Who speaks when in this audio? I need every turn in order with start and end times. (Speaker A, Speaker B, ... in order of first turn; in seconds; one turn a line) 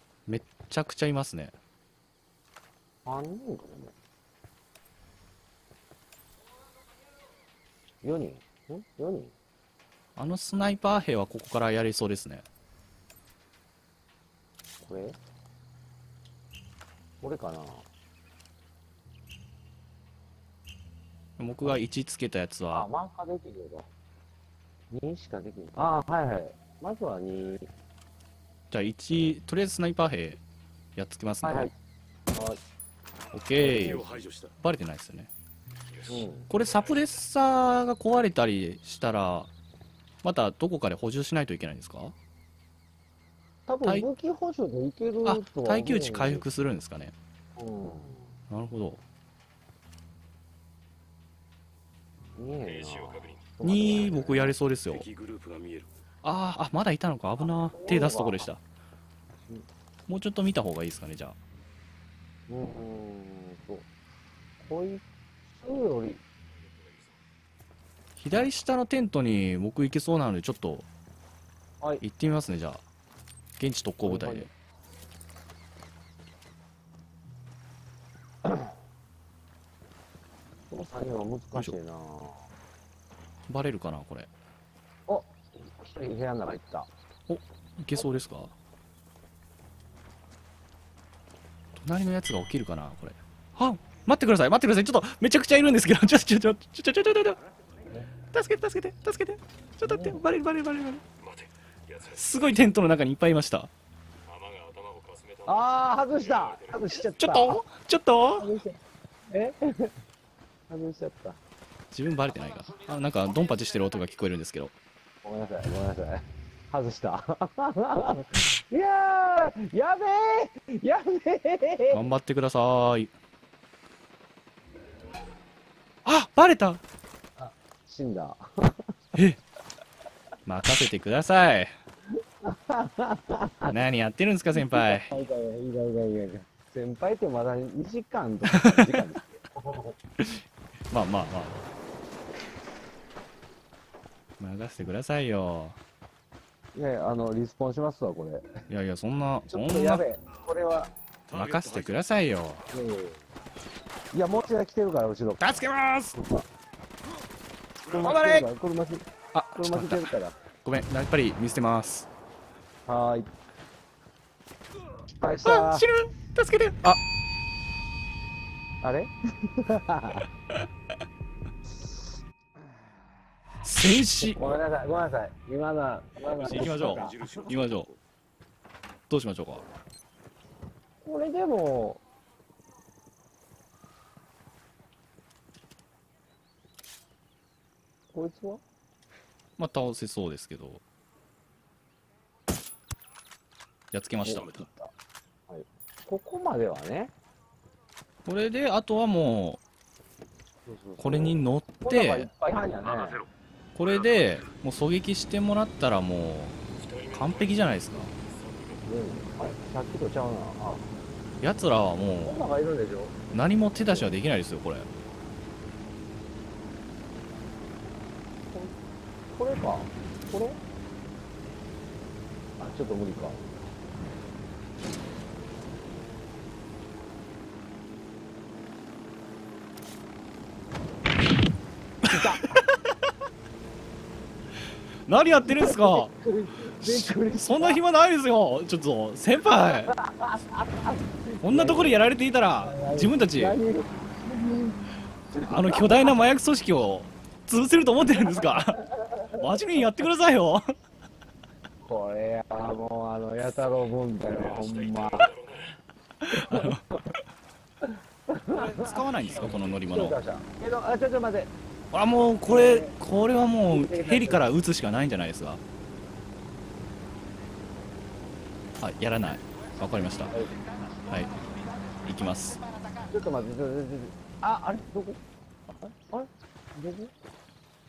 Speaker A: 0.3-1.6
Speaker B: 3.0-3.9
Speaker B: 8.0-9.3
Speaker A: 10.2-12.4
Speaker B: 14.8-15.2
Speaker B: 17.2-17.9
Speaker A: 21.4-22.9
Speaker B: 22.7-23.9
Speaker B: 24.9-27.7
Speaker A: 28.7-30.4
Speaker A: 30.9-31.7
Speaker B: 31.4-31.7
Speaker B: 32.3-32.6
Speaker A: 33.3-34.0
Speaker C: 33.6-34.5
Speaker B: 33.6-34.0
Speaker A: 34.6-35.3
Speaker C: 35.9-36.6
Speaker B: 36.1-36.5
Speaker A: 36.5-39.5
Speaker A: 40.2-42.1
Speaker B: 43.7-46.4
Speaker A: 45.2-47.1
Speaker B: 47.6-48.3
Speaker A: 48.5-49.0
Speaker B: 52.4-54.5
Speaker C: 52.7-53.4
Speaker A: 53.6-55.0
Speaker C: 54.9-55.9
Speaker A: 56.2-58.6
Speaker B: 57.4-58.5
Speaker A: 60.1-61.4
Speaker B: 62.5-63.9
Speaker B: 64.6-65.0
Speaker B: 65.6-66.2
Speaker A: 68.2-70.9
Speaker A: 72.0-72.8
Speaker A: 73.6-74.5
Speaker B: 74.0-74.5
Speaker B: 78.4-78.7
Speaker B: 80.7-82.5
Speaker A: 83.5-84.3
Speaker B: 85.1-86.9
Speaker A: 87.3-88.5
Speaker A: 91.8-97.4
Speaker A: 98.3-101.0
Speaker B: 99.8-100.2
Speaker C: 101.2-102.6
Speaker A: 102.1-103.7
Speaker C: 104.3-106.8
Speaker B: 105.5-107.6
Speaker A: 107.2-108.5
Speaker B: 108.3-108.8
Speaker B: 109.3-109.9
Speaker B: 110.7-111.4
Speaker A: 111.9-114.7
Speaker B: 115.2-122.0
Speaker A: 121.9-123.1
Speaker A: 126.0-126.8
Speaker B: 127.4-128.8
Speaker A: 130.4-131.7
Speaker B: 132.4-133.8
Speaker A: 133.7-135.1
Speaker B: 134.6-139.9
Speaker A: 138.5-138.9
Speaker A: 140.2-141.6
Speaker A: 144.4-145.8
Speaker B: 146.7-148.5
Speaker A: 148.7-150.0
Speaker B: 149.5-150.9
Speaker C: 151.3-152.0
Speaker A: 151.3-152.6
Speaker B: 152.7-153.2
Speaker B: 154.1-155.5
Speaker A: 155.4-156.2
Speaker B: 156.1-156.4
Speaker B: 157.8-160.3
Speaker A: 157.9-158.5
Speaker A: 159.3-160.1
Speaker A: 160.6-162.1
Speaker B: 162.9-163.3
Speaker B: 165.2-165.9
Speaker A: 165.4-167.0
Speaker B: 168.8-170.3
Speaker A: 173.6-174.4
Speaker B: 174.2-177.4
Speaker A: 176.4-177.9
Speaker C: 176.4-178.0
Speaker A: 179.1-179.6
Speaker B: 181.0-182.0
Speaker B: 188.1-188.6
Speaker A: 189.6-190.8
Speaker A: 193.9-194.6
Speaker B: 194.2-194.9
Speaker B: 195.5-197.1
Speaker A: 198.2-199.6
Speaker B: 200.7-203.2
Speaker A: 201.0-202.3
Speaker C: 202.8-203.3
Speaker A: 203.8-206.6
Speaker C: 203.8-204.5
Speaker C: 206.8-208.8
Speaker A: 207.1-208.1
Speaker B: 208.8-210.9
Speaker A: 211.4-212.4
Speaker B: 212.2-213.1
Speaker A: 213.3-214.9
Speaker B: 213.8-214.2
Speaker B: 219.3-220.6
Speaker B: 222.6-223.4
Speaker A: 232.0-232.9
Speaker B: 232.1-232.6
Speaker A: 235.1-236.1
Speaker B: 235.4-237.8
Speaker A: 236.8-239.9
Speaker B: 239.6-242.1
Speaker A: 241.4-243.6
Speaker B: 242.6-244.8
Speaker B: 245.3-246.0
Speaker A: 245.4-250.6
Speaker B: 248.4-249.4
Speaker B: 251.8-255.3
Speaker C: 254.3-255.7
Speaker A: 256.3-256.8
Speaker B: 256.5-257.0
Speaker B: 258.3-261.5
Speaker A: 258.5-260.2
Speaker A: 261.9-265.6
Speaker B: 262.5-262.9
Speaker B: 263.7-264.4
Speaker A: 268.8-270.5
Speaker A: 271.1-271.3
Speaker A: 272.0-272.6
Speaker B: 273.1-275.2
Speaker B: 275.8-277.1